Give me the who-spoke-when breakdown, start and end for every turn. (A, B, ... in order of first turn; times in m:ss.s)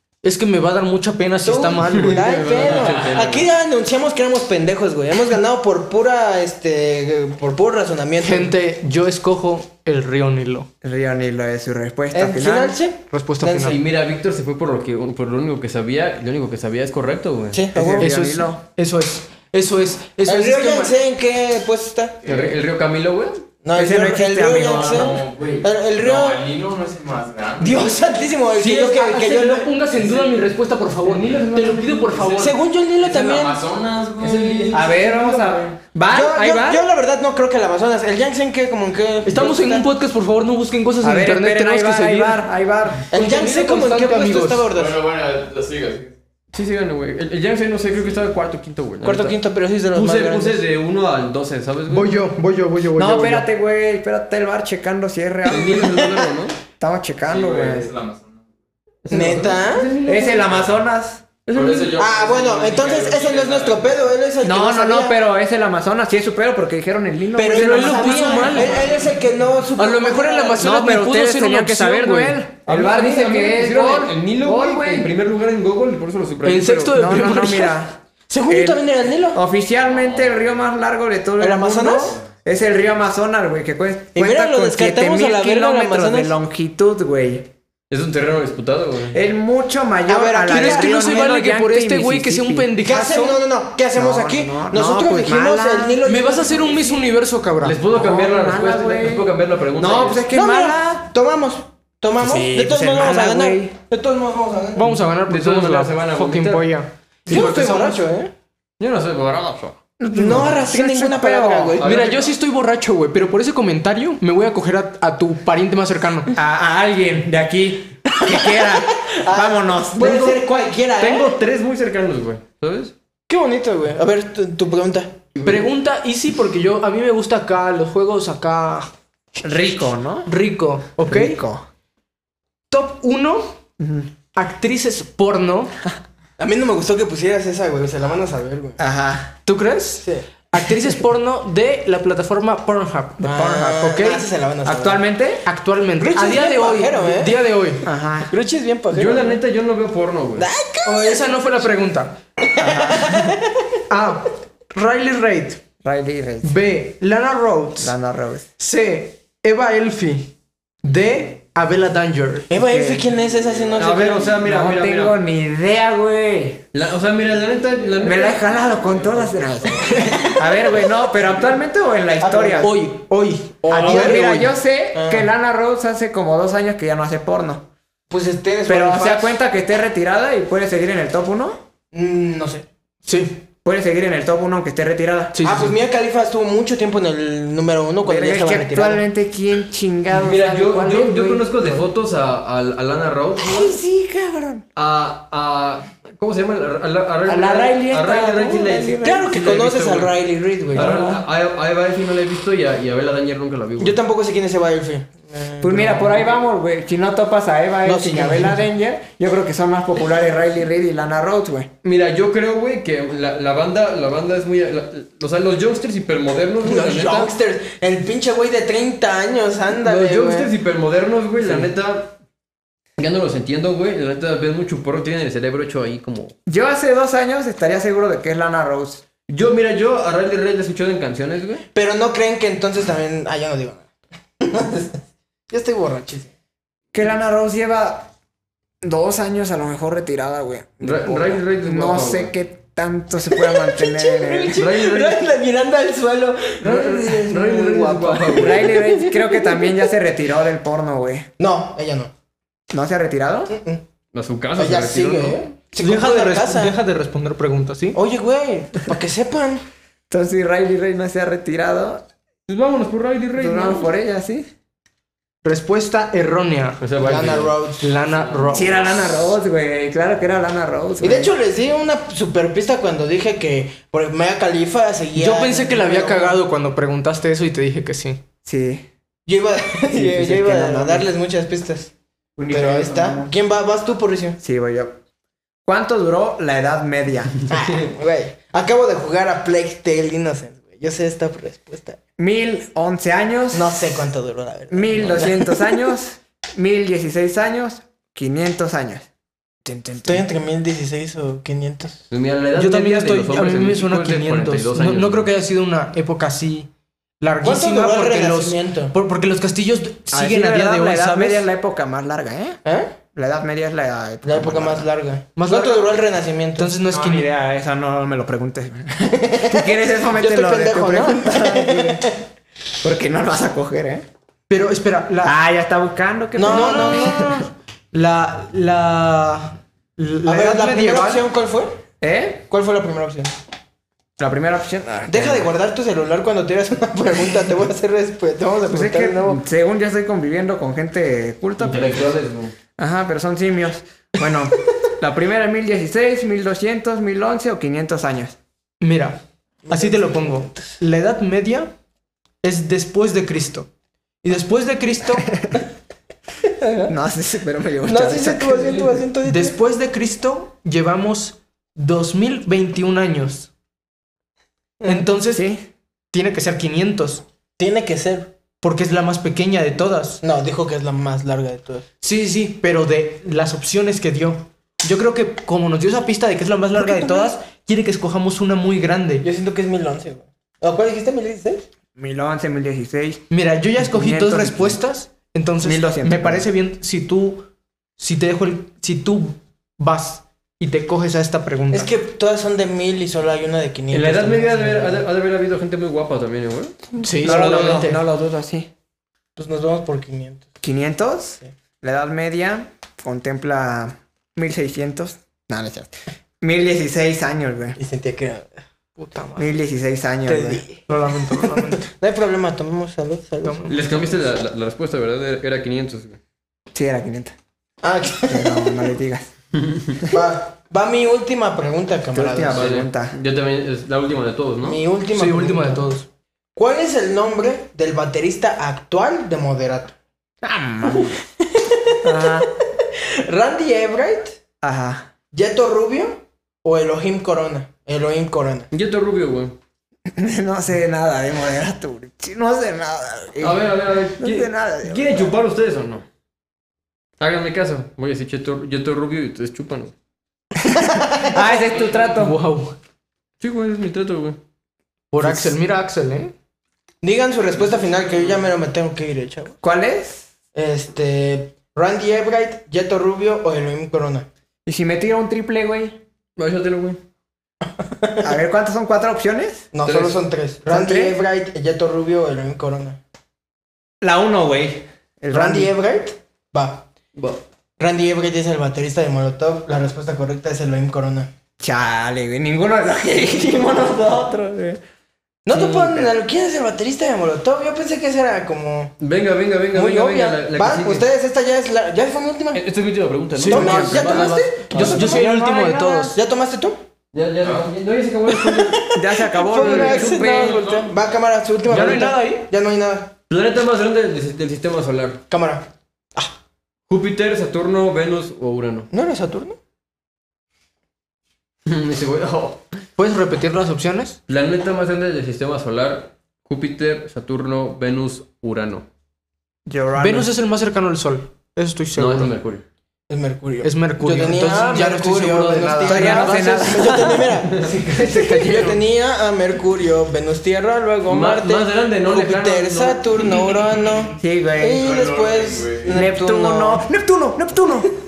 0:00.2-0:02.8 A
0:01.4-0:08.5 B
0:02.0-0:03.4 C
0:08.2-0:10.7 A
0:10.8-0:12.8 D
0:12.1-0:13.8 B
0:13.1-0:13.8 A
0:13.6-0:17.6 C
0:17.5-0:18.1 B
0:17.7-0:18.6 D
0:18.0-0:20.9 A
0:20.2-0:22.2 B
0:22.2-0:22.6 E
0:22.2-0:23.4 C
0:23.6-0:26.4 B
0:23.7-0:25.2 D
0:24.7-0:28.1 E
0:27.6-0:29.7 B
0:28.5-0:32.5 A
0:30.0-0:30.4 E
0:31.5-0:35.0 E
0:32.4-0:33.6 B
0:34.2-0:34.9 C
0:34.2-0:35.1 A
0:34.7-0:36.8 D
0:36.1-0:39.8 B
0:39.2-0:42.4 A
0:41.0-0:43.0 D
0:43.1-0:45.0 B
0:43.1-0:44.7 A
0:44.7-0:46.1 E
0:46.5-0:49.4 C
0:49.0-0:50.6 B
0:49.9-0:52.2 C
0:51.9-0:53.4 A
0:53.0-0:56.1 D
0:55.5-0:56.6 C
0:55.7-0:56.0 B
0:56.8-0:57.9 D
0:57.3-0:58.4 E
0:59.0-1:00.6 C
0:59.1-0:59.9 B
1:00.0-1:01.7 D
1:01.5-1:03.8 C
1:01.8-1:03.6 E
1:01.9-1:05.2 B
1:04.4-1:08.7 D
1:07.3-1:10.7 B
1:07.5-1:08.8 A
1:09.8-1:12.4 A
1:10.6-1:15.1 D
1:12.7-1:17.1 C
1:16.4-1:17.8 A
1:16.9-1:27.5 D
1:18.3-1:19.4 B
1:19.9-1:20.4 E
1:21.4-1:22.2 B
1:24.1-1:26.3 B
1:27.9-1:29.2 C
1:29.1-1:32.7 D
1:30.1-1:31.3 B
1:30.5-1:33.4 A
1:32.8-1:37.0 B
1:33.9-1:36.0 D
1:36.0-1:37.8 A
1:37.6-1:40.2 C
1:37.9-1:41.1 D
1:40.3-1:45.0 B
1:42.2-1:43.7 D
1:44.7-1:48.0 A
1:45.3-1:46.7 C
1:47.3-1:48.3 B
1:48.8-1:49.8 C
1:50.0-1:51.8 D
1:50.1-1:51.9 B
1:51.8-1:52.3 C
1:51.8-1:56.3 A
1:56.3-2:00.4 D
1:58.2-2:01.4 B
2:01.0-2:02.9 C
2:03.3-2:05.4 B
2:05.4-2:08.9 A
2:09.4-2:10.3 D
2:10.2-2:11.4 A
2:11.0-2:11.6 D
2:12.7-2:13.6 A
2:13.8-2:14.1 D
2:14.3-2:15.8 A
2:16.4-2:18.8 B
2:18.8-2:19.4 D
2:19.4-2:24.3 A
2:23.2-2:23.9 D
2:23.2-2:25.0 B
2:24.6-2:25.4 D
2:25.4-2:27.8 A
2:26.0-2:27.4 B
2:27.8-2:28.3 D
2:28.2-2:29.4 B
2:28.9-2:30.5 C
2:30.4-2:31.4 B
2:30.8-2:32.2 A
2:32.4-2:33.8 B
2:32.6-2:33.3 D
2:33.9-2:35.6 A
2:35.8-2:36.6 D
2:36.4-2:37.9 A
2:37.8-2:38.5 D
2:38.6-2:42.5 A
2:42.5-2:44.3 B
2:42.5-2:43.0 D
2:43.8-2:45.2 C
2:44.2-2:46.6 D
2:46.7-2:48.7 C
2:48.0-2:52.8 D
2:49.9-2:50.4 B
2:52.2-2:52.7 B
2:52.6-2:54.5 A
2:53.6-2:55.3 B
2:53.7-2:57.7 D
2:58.1-2:59.4 B
2:58.7-3:01.6 D
3:01.9-3:02.6 B
3:03.0-3:03.4 A
3:03.6-3:05.4 D
3:05.3-3:05.7 A
3:05.4-3:09.0 B
3:08.0-3:11.8 D
3:10.1-3:13.8 C
3:13.4-3:14.6 D
3:14.8-3:20.1 C
3:17.3-3:19.3 D
3:19.0-3:20.9 B
3:20.7-3:24.0 C
3:20.7-3:21.2 D
3:23.8-3:26.2 B
3:25.6-3:31.7 D
3:27.8-3:28.6 B
3:31.8-3:37.3 C
3:36.6-3:40.5 B
3:39.8-3:42.2 C
3:43.0-3:46.3 C
3:46.5-3:49.0 D
3:49.3-3:51.6 C
3:51.7-3:53.9 B
3:54.4-3:56.3 B
3:56.9-3:58.1 D
3:58.8-4:04.6 D
4:00.8-4:02.3 C
4:03.3-4:09.7 B
4:04.6-4:05.2 C
4:06.6-4:08.7 C
4:08.3-4:11.3 D
4:11.4-4:12.1 B
4:12.7-4:13.5 D
4:13.5-4:13.8 B
4:14.1-4:15.4 C
4:14.6-4:16.8 B
4:15.8-4:18.0 A
4:17.9-4:19.6 B
4:20.1-4:22.0 D
4:22.5-4:23.9 C
4:23.3-4:24.5 D
4:25.4-4:26.8 A
4:26.8-4:27.6 C
4:27.0-4:27.9 B
4:27.8-4:28.9 A
4:28.1-4:28.7 C
4:28.5-4:31.3 D
4:31.0-4:36.4 B
4:35.1-4:38.2 A
4:38.4-4:38.9 D
4:39.2-4:41.9 B
4:39.9-4:41.1 D
4:42.4-4:43.3 D
4:42.5-4:44.4 B
4:44.4-4:45.0 D
4:45.6-4:47.4 D
4:47.5-4:52.0 B
4:52.2-4:53.8 D
4:53.5-4:55.7 B
4:54.7-4:59.1 D
4:59.6-5:00.2 D
5:00.0-5:02.0 B
5:02.1-5:05.3 C
5:02.5-5:06.7 A
5:07.2-5:11.4 A
5:07.4-5:08.9 B
5:10.1-5:12.6 D
5:12.6-5:12.9 B
5:13.1-5:14.9 D
5:14.2-5:16.7 B
5:15.4-5:15.9 A
5:16.6-5:17.3 A
5:16.9-5:22.0 D
5:19.0-5:22.2 B
5:22.8-5:24.0 D
5:24.5-5:25.4 A
5:25.2-5:27.4 D
5:26.3-5:27.3 B
5:26.4-5:31.2 A
5:30.2-5:31.8 B
5:32.0-5:32.5 D
5:32.5-5:33.3 B
5:34.2-5:35.5 D
5:35.1-5:39.4 B
5:38.7-5:42.1 D
5:41.6-5:42.5 C
5:42.8-5:48.4 D
5:48.8-5:51.7 A
5:49.6-5:50.8 B
5:52.4-5:53.7 A
5:54.2-5:55.3 A
5:55.3-5:55.6 D
5:56.6-5:56.9 B
5:56.9-5:59.0 D
5:57.8-5:59.6 B
5:59.2-6:03.5 A
6:04.8-6:05.0 B
6:04.8-6:05.4 A
6:05.3-6:05.7 D
6:06.1-6:07.2 A
6:07.6-6:08.3 B
6:08.6-6:10.2 A
6:10.2-6:11.8 B
6:12.0-6:19.2 A
6:16.8-6:17.2 D
6:19.2-6:21.6 B
6:22.0-6:23.2 D
6:23.3-6:31.9 A
6:23.8-6:24.8 D
6:25.6-6:26.4 D
6:31.7-6:35.0 B
6:33.9-6:37.9 C
6:37.0-6:38.0 A
6:37.0-6:38.7 D
6:39.4-6:40.4 B
6:40.6-6:47.8 D
6:47.8-6:48.5 B
6:49.0-6:49.5 A
6:49.4-6:50.6 D
6:50.3-6:53.7 B
6:50.9-6:51.9 A
6:53.4-6:53.8 A
6:53.6-6:56.2 C
6:56.7-6:57.3 D
6:57.8-6:58.8 B
6:58.3-6:59.3 D
7:00.1-7:02.7 B
7:02.1-7:03.1 D
7:02.5-7:04.8 C
7:04.6-7:05.9 B
7:05.1-7:06.0 A
7:06.6-7:09.9 B
7:10.4-7:11.2 D
7:11.4-7:14.4 B
7:12.0-7:12.5 D
7:14.6-7:15.1 D
7:15.3-7:18.7 B
7:18.7-7:19.5 C
7:20.2-7:23.6 D
7:23.4-7:26.0 C
7:24.2-7:25.3 D
7:27.2-7:29.9 C
7:30.8-7:32.4 D
7:30.9-7:31.4 B
7:32.1-7:32.8 A
7:33.4-7:34.4 C
7:35.1-7:36.3 A
7:35.2-7:35.5 D
7:37.0-7:39.6 B
7:39.6-7:40.3 D
7:40.5-7:44.3 B
7:44.6-7:46.0 D
7:46.4-7:47.0 C
7:47.8-7:48.3 B
7:48.2-7:49.7 D
7:49.7-7:53.0 B
7:49.8-7:50.2 C
7:50.6-7:51.2 D
7:54.0-7:55.7 D
7:55.3-7:56.9 B
7:57.1-7:57.4 C
7:57.8-8:01.3 B
8:01.6-8:04.8 D
8:05.4-8:08.9 B
8:05.5-8:06.1 D
8:09.0-8:11.1 C
8:09.7-8:12.6 B
8:12.5-8:14.7 C
8:13.4-8:16.2 A
8:13.5-8:15.3 B
8:13.5-8:16.2 D
8:16.1-8:16.8 B
8:17.1-8:18.8 C
8:18.3-8:23.1 B
8:18.9-8:20.7 D
8:19.6-8:20.8 C
8:21.7-8:22.4 A
8:23.3-8:25.2 C
8:25.3-8:26.3 B
8:26.9-8:28.9 C
8:28.9-8:29.6 B
8:31.6-8:32.6 C
8:33.0-8:34.2 A
8:34.3-8:38.8 C
8:39.6-8:40.3 D
8:40.0-8:42.3 A
8:42.0-8:42.6 C
8:43.1-8:56.8 B
8:43.6-8:47.2 A
8:45.8-8:47.2 D
8:47.9-8:48.8 D
8:51.1-8:53.0 C
8:54.2-8:55.0 D
8:54.8-8:55.9 E
8:55.9-8:57.9 D